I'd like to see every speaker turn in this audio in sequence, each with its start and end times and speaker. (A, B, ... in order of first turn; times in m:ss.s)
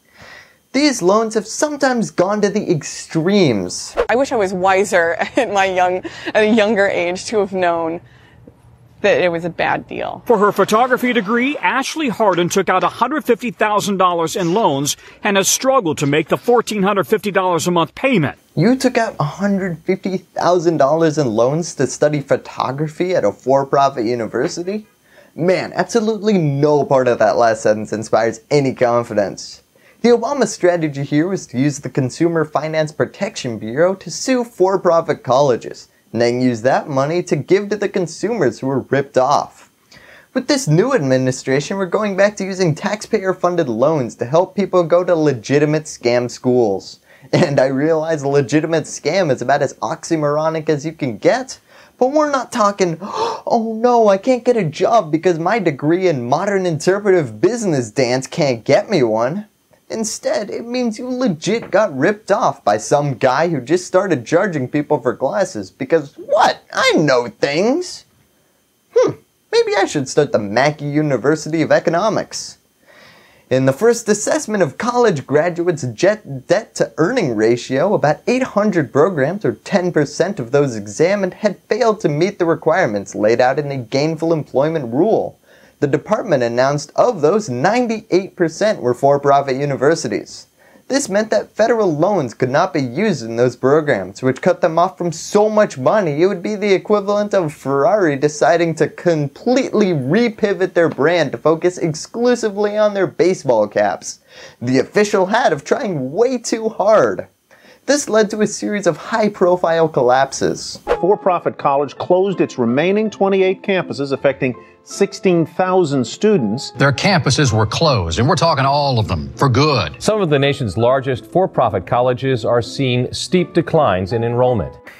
0:00.7-0:03.9 A
0:04.0-0:08.0 B
0:09.0-0:10.2 B
0:10.3-0:18.4 C
0:18.6-0:39.7 A
0:40.3-1:08.0 A
1:08.9-1:12.6 A
1:13.5-1:47.3 A
1:47.9-1:50.8 A
1:51.0-1:56.7 D
1:56.8-2:00.0 E
2:00.0-2:04.8 F